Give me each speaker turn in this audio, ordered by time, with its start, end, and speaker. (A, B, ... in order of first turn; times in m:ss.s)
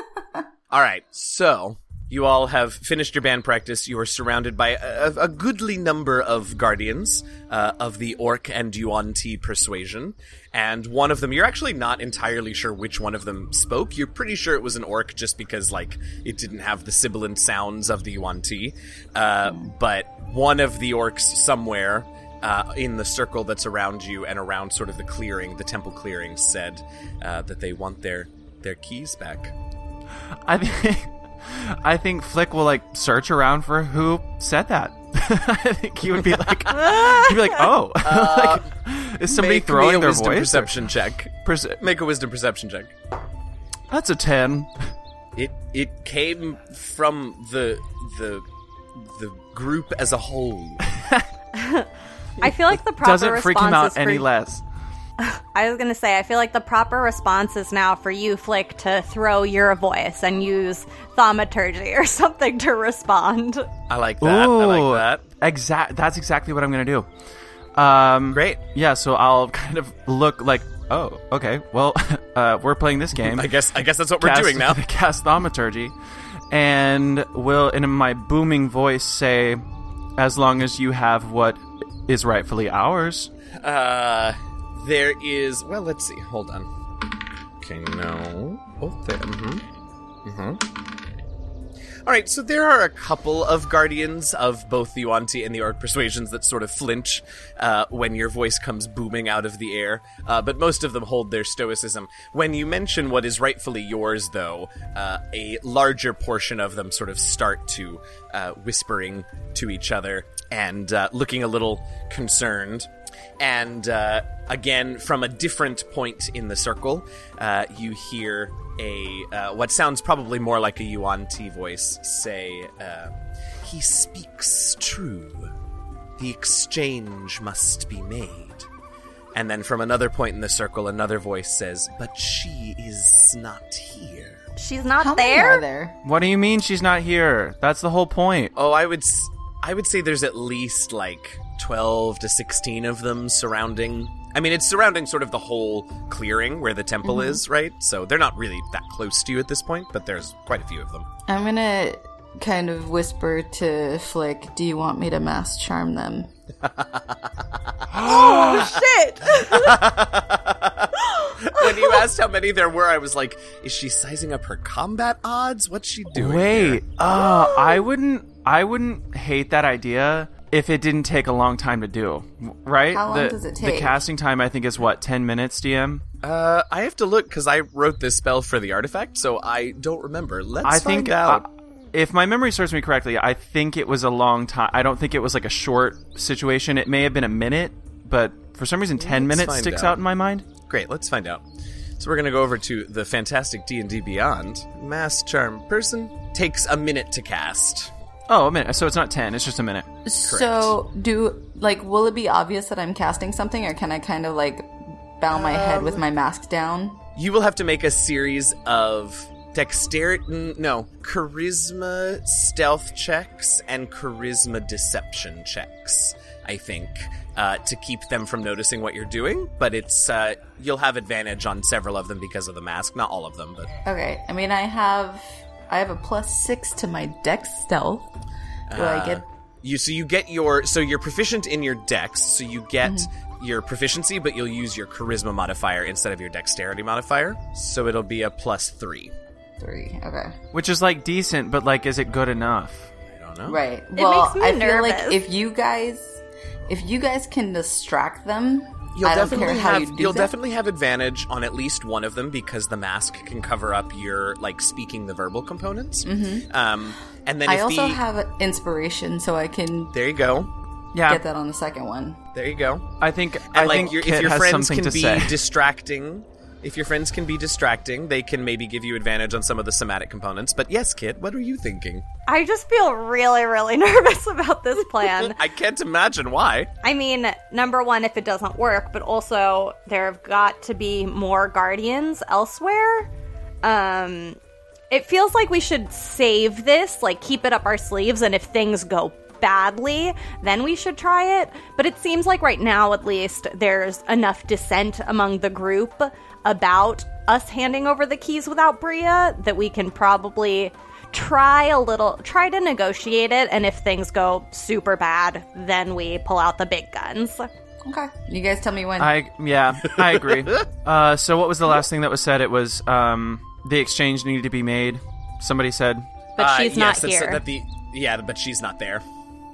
0:00.7-0:29.5 A
0:30.4-0:40.9 B
0:36.7-0:37.6 C
0:38.0-0:38.7 A
0:39.3-0:42.9 A
0:41.4-0:41.8 B
0:43.9-0:44.7 B
0:45.4-0:50.8 A
0:50.9-0:51.2 B
0:51.5-0:51.9 C
0:52.4-0:54.2 C
0:52.4-0:54.6 B
0:55.2-1:03.7 C
1:03.9-1:05.2 A
1:04.2-1:07.1 B
1:07.8-1:13.5 B
1:08.3-1:08.6 A
1:13.2-1:14.8 A
1:14.2-1:15.9 B
1:16.5-1:19.6 B
1:20.2-1:23.3 B
1:23.6-1:26.7 A
1:27.6-1:29.6 A
1:30.2-1:30.6 A
1:32.0-2:05.5 A
2:06.2-2:08.7 A
2:09.3-2:14.4 A
2:14.6-2:15.6 C
2:15.0-2:16.0 D
2:16.0-2:18.5 B
2:18.5-2:31.1 A
2:27.0-2:27.4 D
2:31.3-2:36.3 D
2:36.6-2:37.2 A
2:37.9-2:38.7 A
2:37.9-2:39.8 C
2:39.4-2:46.8 A
2:41.0-2:42.0 C
2:46.1-2:56.0 B
2:47.1-2:47.8 C
2:52.9-2:54.0 D
2:56.2-3:01.4 A
3:00.6-3:10.4 B
3:09.0-3:10.0 A
3:10.6-3:11.4 A
3:12.0-3:17.9 A
3:18.3-3:19.9 B
3:20.0-3:27.0 D
3:20.3-3:20.7 A
3:25.3-3:26.0 A
3:27.2-3:43.7 A
3:43.8-3:48.1 D
3:48.7-3:49.2 D
3:48.7-3:59.1 A
3:52.8-3:53.1 D
3:59.6-4:00.3 D
4:00.5-4:02.9 B
4:03.1-4:03.6 A
4:03.4-4:10.3 D
4:04.0-4:05.2 C
4:08.9-4:18.0 A
4:16.0-4:16.5 D
4:17.4-4:19.9 D
4:19.9-4:20.5 A
4:20.9-4:21.2 B
4:21.0-4:22.2 D
4:22.3-4:22.9 A
4:23.0-4:25.4 B
4:23.4-4:32.0 A
4:32.3-4:35.4 C
4:35.1-4:36.7 A
4:36.8-4:43.1 C
4:43.6-4:44.4 C
4:44.9-5:07.5 C
5:07.8-5:09.1 D
5:09.0-5:16.1 B
5:16.4-5:17.4 C
5:16.4-5:19.0 A